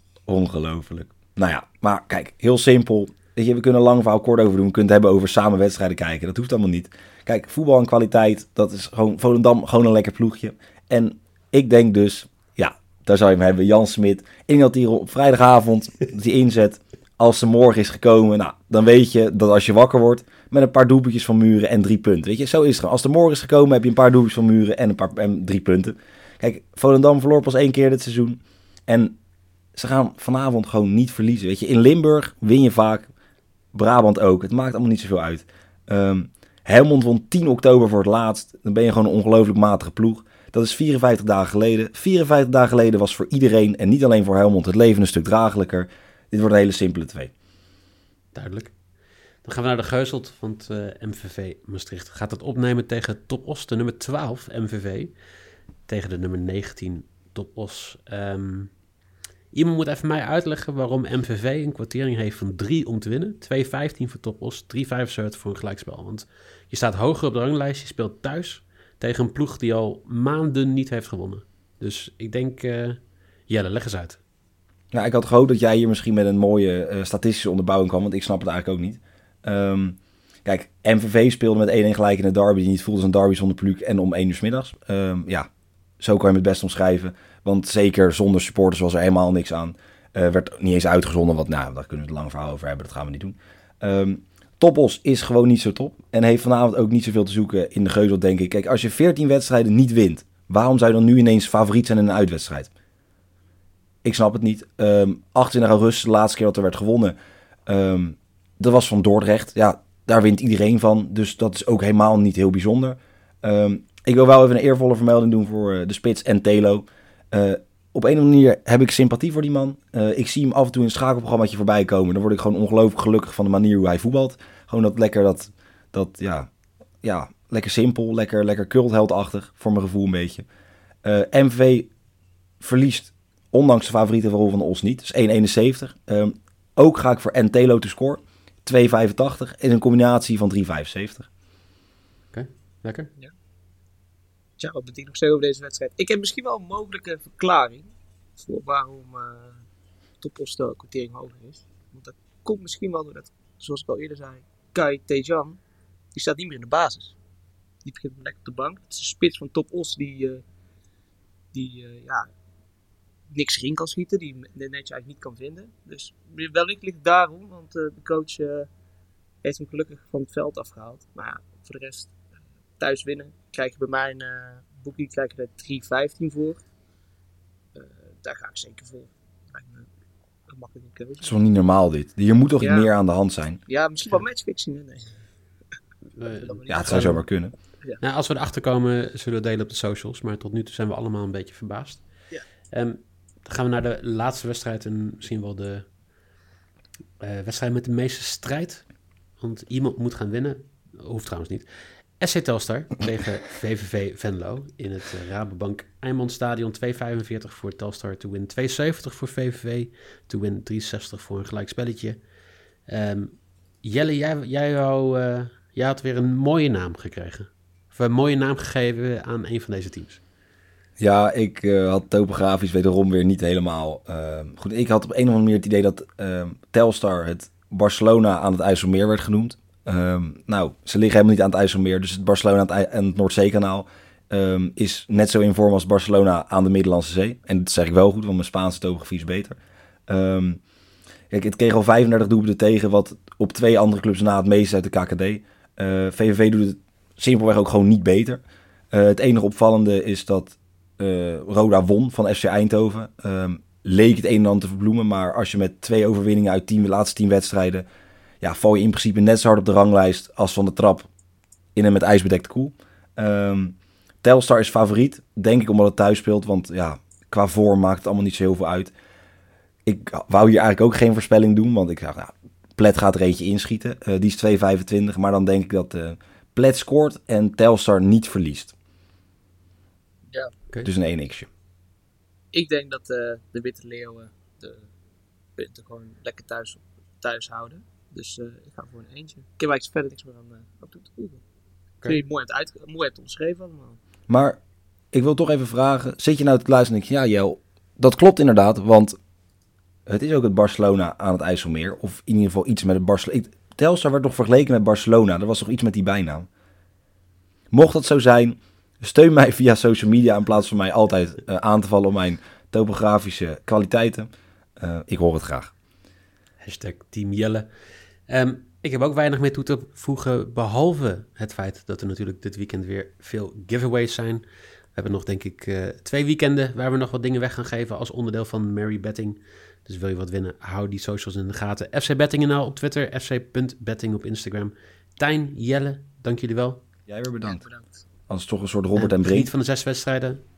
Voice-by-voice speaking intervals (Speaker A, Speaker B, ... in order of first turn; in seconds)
Speaker A: 0.3-29.2, 29.7-33.1, 33.7-47.3, 74.9-85.5, 86.0-102.7, 104.0-107.2, 107.7-126.5, 127.0-130.4, 131.0-131.9, 132.6-141.3, 181.2-183.6, 186.7-187.5, 221.0-239.6, 240.1-240.6, 241.3-248.4, 248.9-257.9, 258.4-261.1, 261.7-268.9, 269.9-278.7, 280.8-281.5, 294.3-294.6, 295.1-299.1, 300.1-306.5, 307.7-315.7, 337.1-337.6, 338.3-339.5
Speaker B: 48.3-48.8, 49.4-55.1, 55.9-58.7, 59.5-74.2, 142.3-143.1, 186.2-187.2, 188.0-192.0, 192.7-195.9, 197.2-201.7, 202.2-212.2, 212.9-220.2, 316.6-317.7, 318.3-324.4, 324.9-336.8, 338.9-340.4
Speaker C: 144.6-149.6, 150.2-155.6, 156.1-157.2, 157.8-160.4, 161.5-162.3, 163.3-168.7, 169.4-172.2, 172.8-176.6, 177.7-179.9, 180.5-181.3, 182.6-182.9, 183.7-185.2, 186.4-187.2, 282.5-284.9, 285.6-291.4, 292.0-294.0, 337.4-338.0